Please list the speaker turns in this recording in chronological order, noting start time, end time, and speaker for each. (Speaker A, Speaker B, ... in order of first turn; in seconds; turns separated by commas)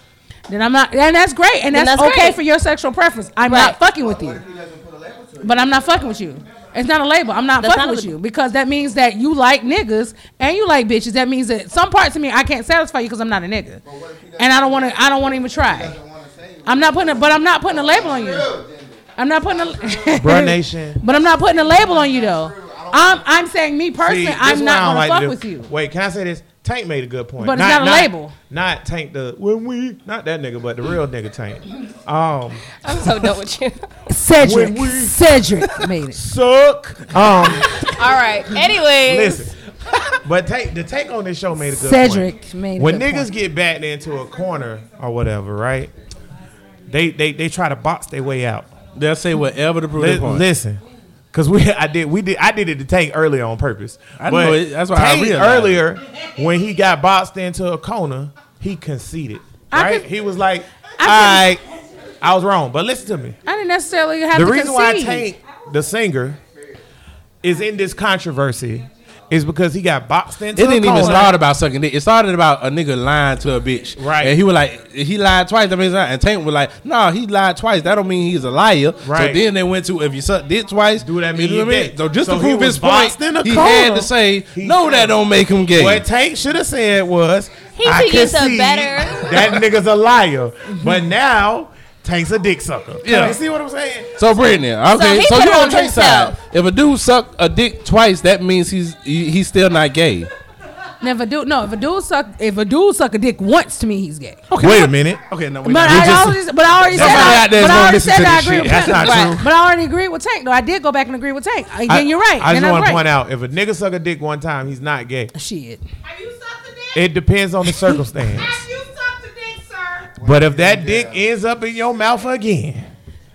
Speaker A: 0.5-4.4, Speaker B: 1.7-2.4, Speaker B: 3.5-3.8, Speaker C: 3.8-6.4, Speaker A: 5.4-13.8, Speaker B: 7.6-8.1, Speaker C: 13.8-20.5, Speaker A: 14.4-15.9, Speaker A: 16.6-18.5, Speaker A: 19.2-25.7, Speaker D: 20.2-21.0, Speaker C: 21.1-23.3, Speaker D: 24.0-32.6, Speaker A: 27.4-28.3, Speaker B: 32.8-33.9, Speaker A: 34.1-36.2, Speaker D: 34.4-35.2, Speaker D: 36.1-37.9, Speaker B: 37.4-39.5, Speaker D: 39.0-39.5, Speaker D: 40.2-45.9, Speaker A: 41.7-43.3, Speaker D: 46.9-48.7, Speaker E: 48.9-50.5, Speaker D: 49.9-50.8, Speaker D: 51.3-61.6, Speaker E: 54.2-55.8, Speaker A: 59.7-60.0, Speaker A: 61.0-61.5, Speaker D: 62.2-63.4, Speaker A: 63.5-65.3, Speaker D: 64.3-66.4, Speaker D: 67.4-71.3, Speaker E: 70.5-86.0, Speaker D: 74.0-74.4, Speaker D: 79.0-79.4, Speaker D: 81.0-85.2, Speaker D: 85.7-94.2, Speaker B: 87.8-89.5, Speaker E: 93.0-93.4, Speaker E: 94.2-100.3, Speaker B: 94.9-96.3, Speaker A: 101.0-104.5, Speaker E: 104.5-109.1, Speaker D: 104.6-105.2, Speaker A: 105.6-113.0, Speaker D: 105.8-109.5, Speaker B: 109.0-109.4, Speaker D: 111.9-115.3, Speaker A: 115.3-115.8, Speaker F: 116.0-117.2, Speaker D: 116.9-118.6, Speaker F: 117.8-120.1, Speaker C: 120.2-121.3, Speaker D: 120.2-122.9